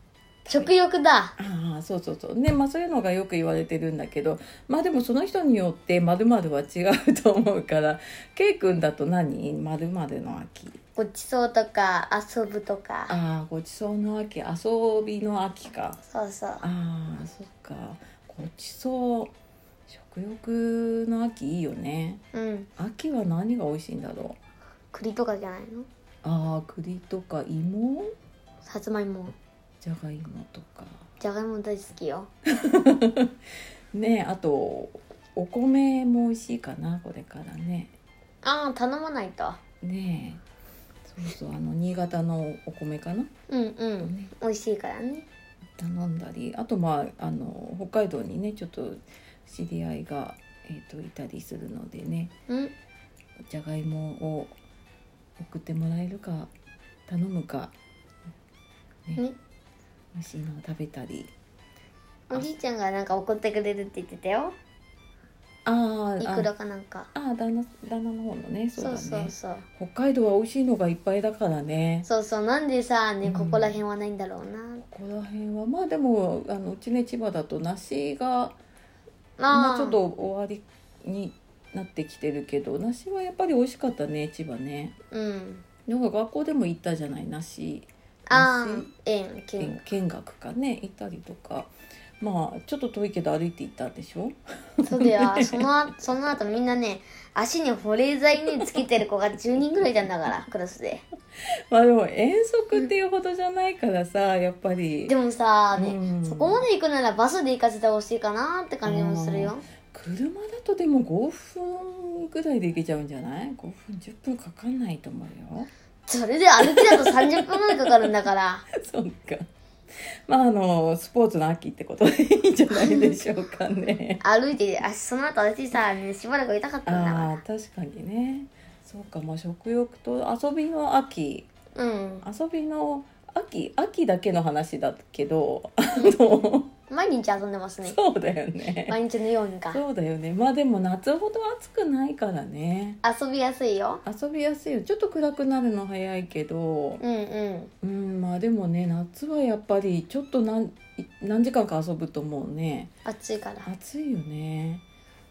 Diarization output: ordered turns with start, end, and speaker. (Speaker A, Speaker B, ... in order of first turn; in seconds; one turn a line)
Speaker A: 0.5-1.4
Speaker B: 1.4-10.8
Speaker A: 11.0-13.2
Speaker B: 13.1-16.0
Speaker A: 16.1-16.6
Speaker B: 16.6-19.3
Speaker B: 19.9-22.2
Speaker A: 22.3-22.7
Speaker B: 22.8-24.4
Speaker A: 24.9-25.9
Speaker B: 26.2-28.1
Speaker A: 28.6-29.4
Speaker B: 29.8-31.1
Speaker A: 31.2-32.3
Speaker B: 32.6-33.3
Speaker B: 33.9-37.9
Speaker A: 38.4-39.6
Speaker B: 39.8-40.4
Speaker B: 41.1-43.3
Speaker A: 43.5-45.3
Speaker B: 44.0-44.3
Speaker B: 45.8-52.3
Speaker A: 52.5-52.7
Speaker B: 53.5-54.6
Speaker B: 55.4-56.5
Speaker B: 57.1-57.7
Speaker B: 60.1-61.3
Speaker A: 62.3-64.6
Speaker B: 62.3-62.6
Speaker B: 65.7-66.5
Speaker A: 66.2-67.1
Speaker B: 67.1-72.1
Speaker A: 68.8-69.7
Speaker A: 72.0-74.8
Speaker B: 73.2-73.8
Speaker B: 74.9-78.6
Speaker A: 79.4-80.0
Speaker B: 79.5-85.0
Speaker A: 85.1-85.7
Speaker B: 85.9-88.9
Speaker A: 88.3-89.8
Speaker B: 89.6-95.7
Speaker A: 94.8-101.0
Speaker B: 101.7-105.1
Speaker A: 105.1-109.6
Speaker B: 105.7-106.7
Speaker B: 108.8-115.7
Speaker A: 116.1-118.7
Speaker B: 116.6-117.9
Speaker B: 118.7-119.5
Speaker B: 120.3-124.2
Speaker A: 122.7-123.2
Speaker A: 124.2-127.4
Speaker B: 126.9-131.5
Speaker A: 131.8-132.2
Speaker B: 132.2-136.7
Speaker A: 136.9-138.0
Speaker B: 137.8-139.0
Speaker A: 138.9-139.8
Speaker B: 139.7-143.0
Speaker A: 143.0-144.0
Speaker B: 144.1-147.0
Speaker A: 147.0-147.7
Speaker B: 147.8-152.9
Speaker A: 153.1-153.7
Speaker B: 153.6-154.8